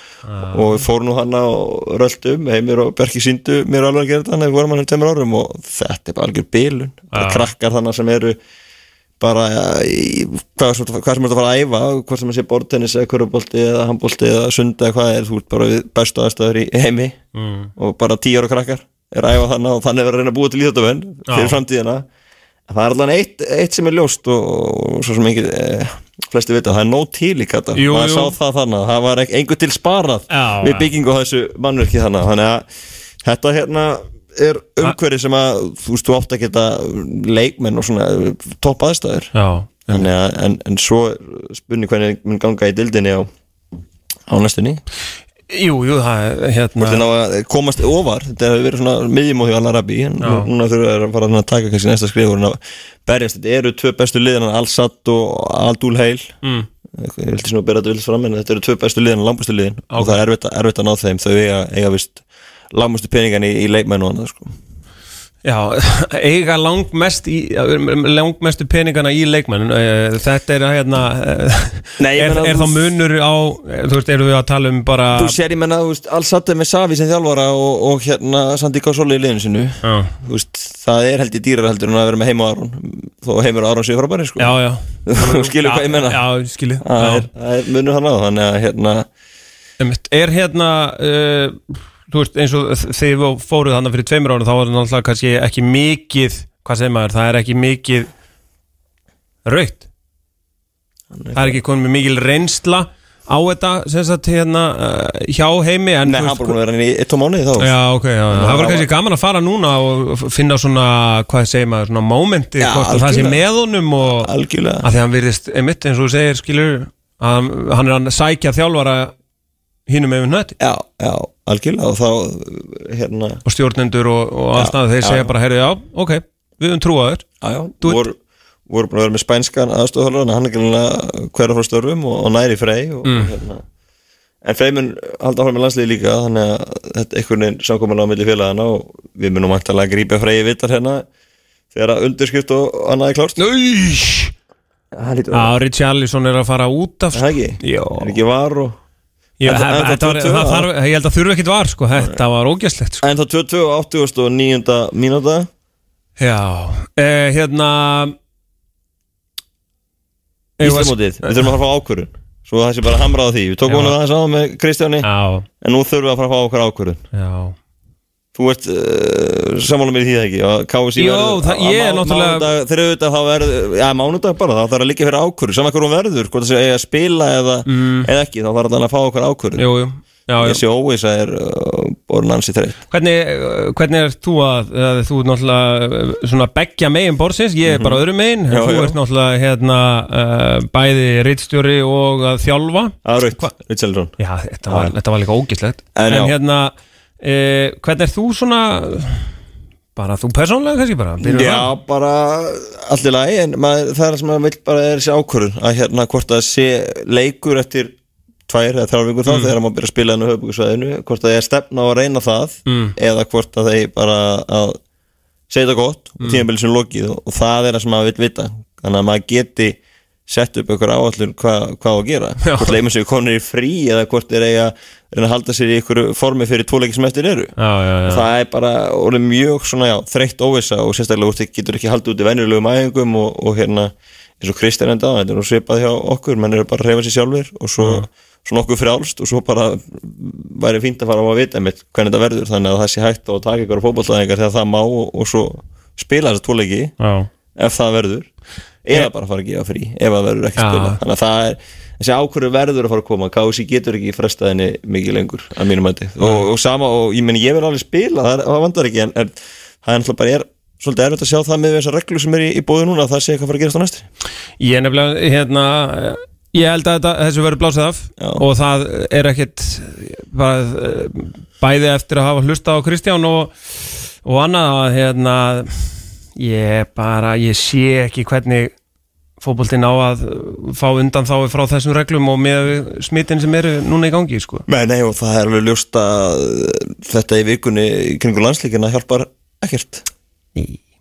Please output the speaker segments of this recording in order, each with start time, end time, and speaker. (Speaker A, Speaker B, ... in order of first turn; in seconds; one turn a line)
Speaker A: 0.2-0.8
Speaker B: 0.4-8.4
Speaker A: 7.1-7.5
Speaker B: 9.2-17.2
Speaker A: 17.3-17.7
Speaker B: 17.8-22.0
Speaker A: 21.3-21.6
Speaker B: 22.7-39.3
Speaker A: 27.7-28.4
Speaker A: 30.3-30.9
Speaker A: 39.3-40.1
Speaker B: 39.9-43.3
Speaker B: 44.3-44.8
Speaker A: 45.5-47.0
Speaker B: 46.8-56.3
Speaker A: 50.2-50.5
Speaker A: 56.4-56.7
Speaker B: 57.0-64.5
Speaker A: 59.9-60.2
Speaker A: 65.4-75.4
Speaker B: 72.0-72.9
Speaker B: 75.1-86.2
Speaker A: 79.8-80.1
Speaker A: 84.4-87.3
Speaker B: 86.8-89.1
Speaker A: 89.8-98.1
Speaker A: 99.4-99.8
Speaker B: 101.1-101.6
Speaker A: 101.3-106.5
Speaker B: 106.0-107.8
Speaker A: 107.6-114.3
Speaker B: 108.3-108.9
Speaker B: 112.6-113.4
Speaker B: 114.0-114.9
Speaker A: 114.8-119.1
Speaker A: 119.9-120.5
Speaker B: 120.6-123.4
Speaker A: 123.4-127.3
Speaker B: 124.5-125.3
Speaker B: 127.4-128.2
Speaker A: 127.8-128.1
Speaker B: 128.7-133.6
Speaker A: 133.0-133.3
Speaker B: 134.4-141.1
Speaker B: 141.7-143.4
Speaker A: 143.4-144.3
Speaker B: 144.9-145.6
Speaker A: 145.3-148.2
Speaker B: 147.1-148.8
Speaker A: 149.4-153.0
Speaker B: 149.4-150.7
Speaker B: 153.0-155.5
Speaker A: 156.2-158.2
Speaker A: 160.6-161.5
Speaker B: 160.6-165.1
Speaker A: 163.7-163.9
Speaker A: 165.0-165.4
Speaker B: 165.6-167.0
Speaker A: 167.1-167.6
Speaker B: 168.3-179.7
Speaker A: 171.0-172.4
Speaker A: 177.7-178.1
Speaker A: 179.6-180.6
Speaker B: 180.4-182.8
Speaker A: 182.9-193.5
Speaker B: 187.7-188.9
Speaker B: 193.0-194.2
Speaker A: 194.2-199.4
Speaker B: 194.7-194.9
Speaker B: 195.9-196.4
Speaker A: 199.9-201.7
Speaker B: 201.2-207.9
Speaker B: 208.5-214.8
Speaker A: 209.3-209.5
Speaker A: 212.7-212.9
Speaker B: 215.5-246.9
Speaker A: 216.2-216.4
Speaker A: 222.4-222.7
Speaker A: 227.6-228.2
Speaker A: 237.8-238.1
Speaker A: 247.0-247.3
Speaker B: 247.5-264.1
Speaker A: 250.6-251.0
Speaker A: 256.2-256.4
Speaker A: 264.6-278.7
Speaker B: 268.2-268.4
Speaker A: 279.4-284.6
Speaker B: 284.7-290.1
Speaker A: 290.6-290.8